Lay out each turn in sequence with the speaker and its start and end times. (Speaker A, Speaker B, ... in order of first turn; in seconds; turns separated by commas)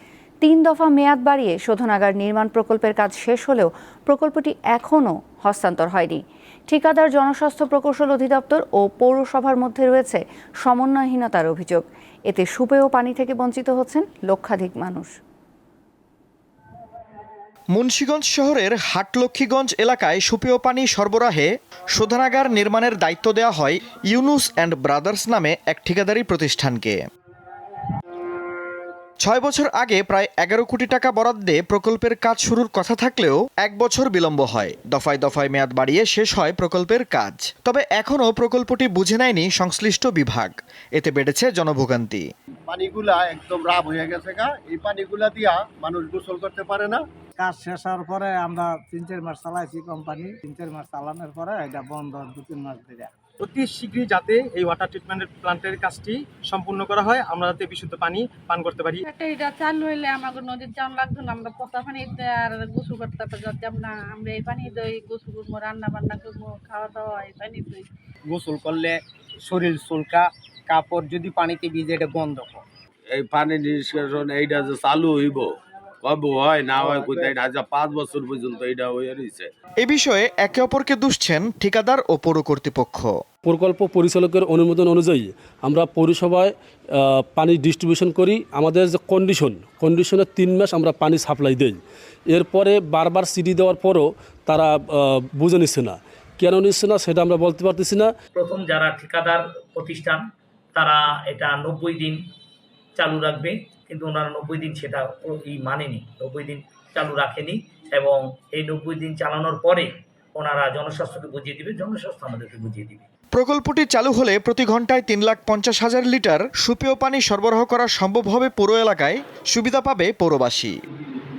Speaker A: 0.4-15.1, Speaker B: 17.7-27.0, Speaker B: 29.2-42.2, Speaker C: 42.7-47.0, Speaker D: 47.4-53.1, Speaker E: 53.4-59.0, Speaker F: 59.0-67.9, Speaker G: 68.3-72.6, Speaker H: 73.1-79.5, Speaker B: 79.8-83.1, Speaker I: 83.4-98.1, Speaker J: 98.3-100.2, Speaker J: 100.7-102.2, Speaker J: 103.0-113.0, Speaker B: 113.3-120.7